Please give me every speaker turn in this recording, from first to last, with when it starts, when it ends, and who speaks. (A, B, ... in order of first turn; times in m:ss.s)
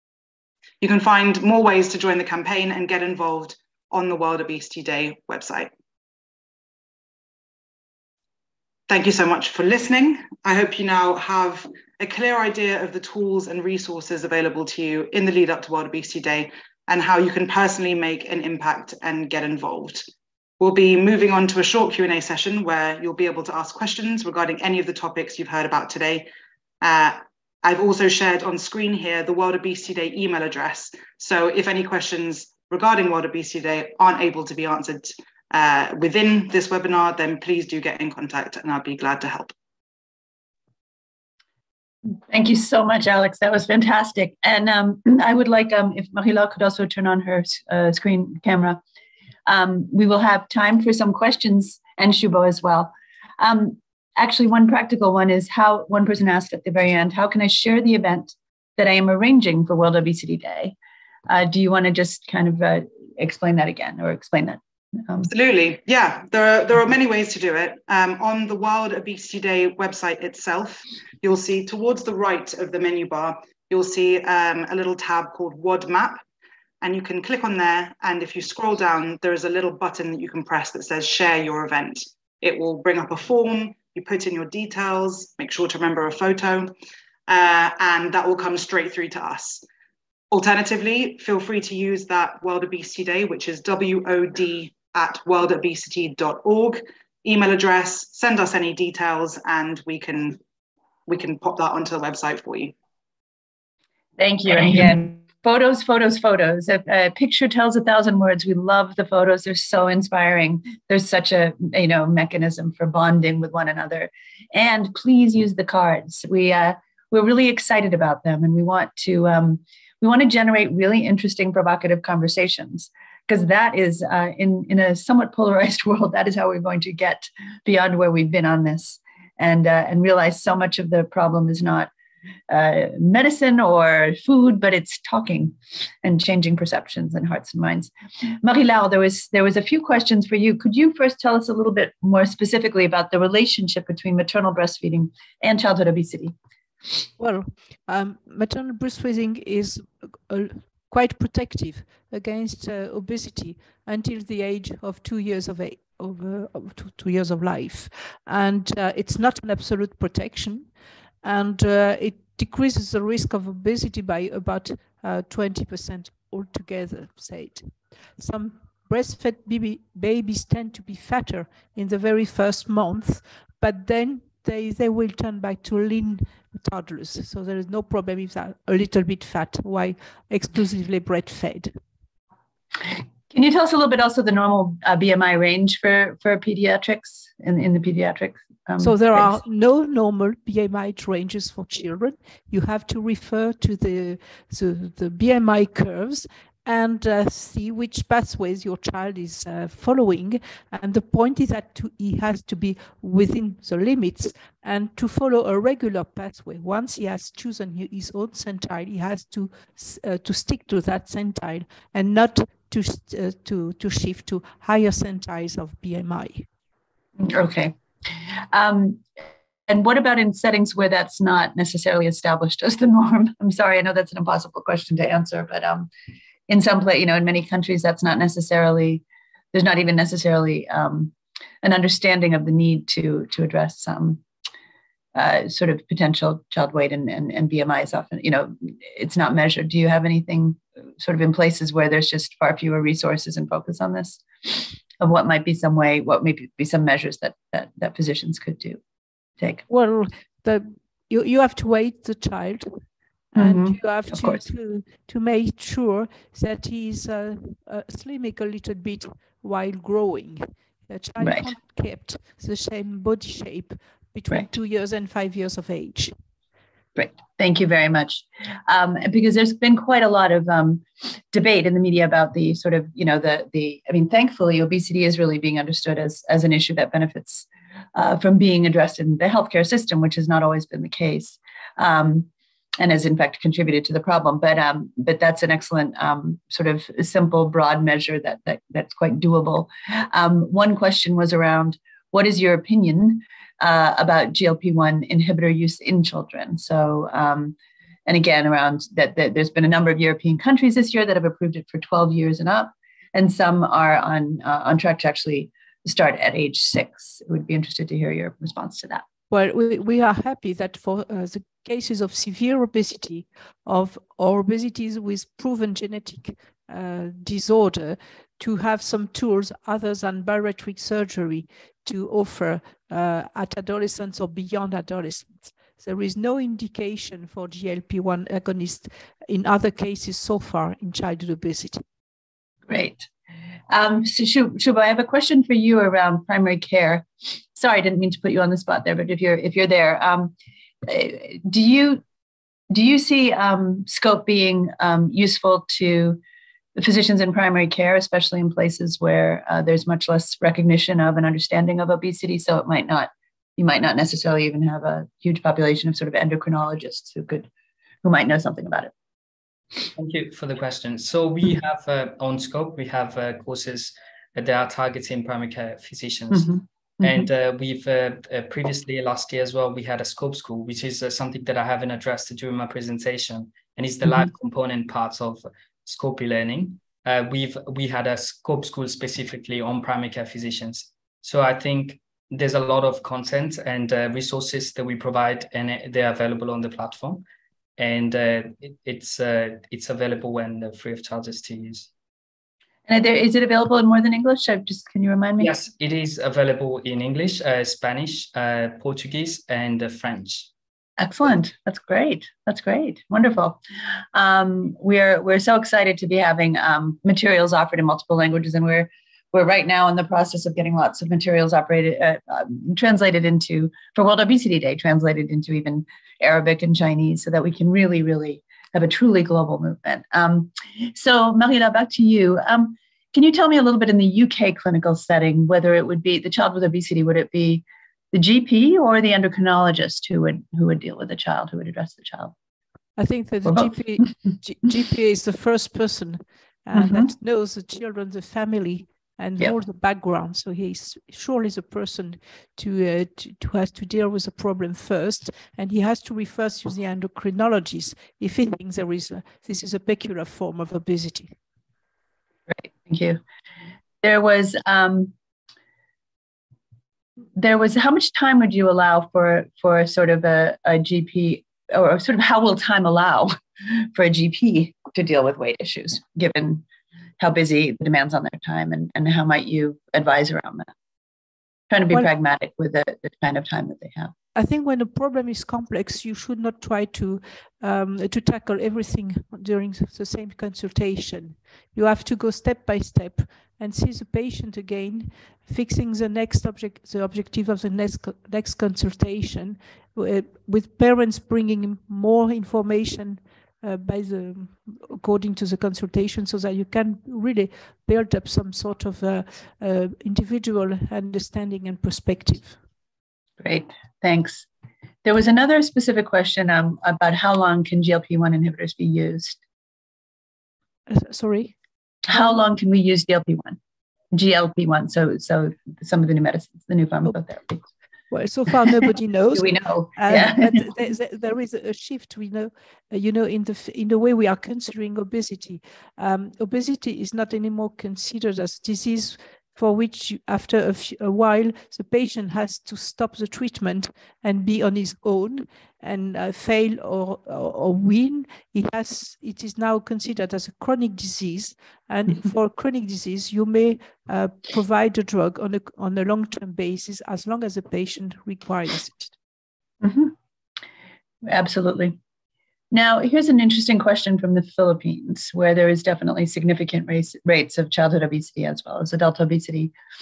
0:00.8-0:05.7 A
0:08.9-0:20.0 A
0:20.6-0:26.3 A
0:26.8-0:39.5 A
0:42.3-0:48.8 B
0:49.5-1:00.8 B
1:01.3-1:05.3 B
1:05.2-1:16.2 A
1:16.8-1:26.7 A
1:27.3-1:29.6 A
1:30.3-1:40.4 A
1:41.1-1:42.8 A
1:44.2-2:11.9 B
2:12.5-2:17.9 B
2:18.4-2:26.3 B
2:27.2-2:40.7 C
2:41.2-3:01.7 C
3:03.3-3:09.4 B
3:08.8-3:36.5 C
3:37.2-3:37.7 B
3:38.4-3:39.1 B
3:39.7-3:45.9 B
3:46.5-3:54.2 B
3:55.2-4:08.8 B
4:09.4-4:09.6 B
4:09.7-4:12.7 C
4:13.4-4:26.1 C
4:13.4-4:14.4 B
4:21.2-4:21.5 B
4:27.0-5:09.0 B
5:09.3-5:31.8 C
5:32.7-5:33.1 B
5:33.7-5:42.0 B
5:42.7-5:46.2 B
5:46.8-5:57.5 B
5:58.0-5:58.9 B
6:00.0-6:27.2 D
6:27.8-6:31.9 D
6:32.9-6:35.5 B
6:35.4-6:40.5 D
6:41.0-6:43.6 B
6:44.1-7:12.3 B
7:13.0-7:31.4 C
7:16.8-7:17.1 B
7:32.5-7:33.2 B
7:34.0-7:35.1 B
7:37.4-7:46.6 B
7:47.2-7:50.7 B
7:51.7-7:54.1 B
7:54.4-8:22.6 C
8:23.4-8:24.5 B
8:25.0-8:29.4 B
8:30.9-8:31.5 C
8:32.1-8:33.6 B
8:34.1-8:37.6 B
8:38.1-9:09.2 C
8:39.3-8:40.6 B
9:09.8-9:10.1 B
9:11.2-9:12.0 B
9:12.7-9:19.7 B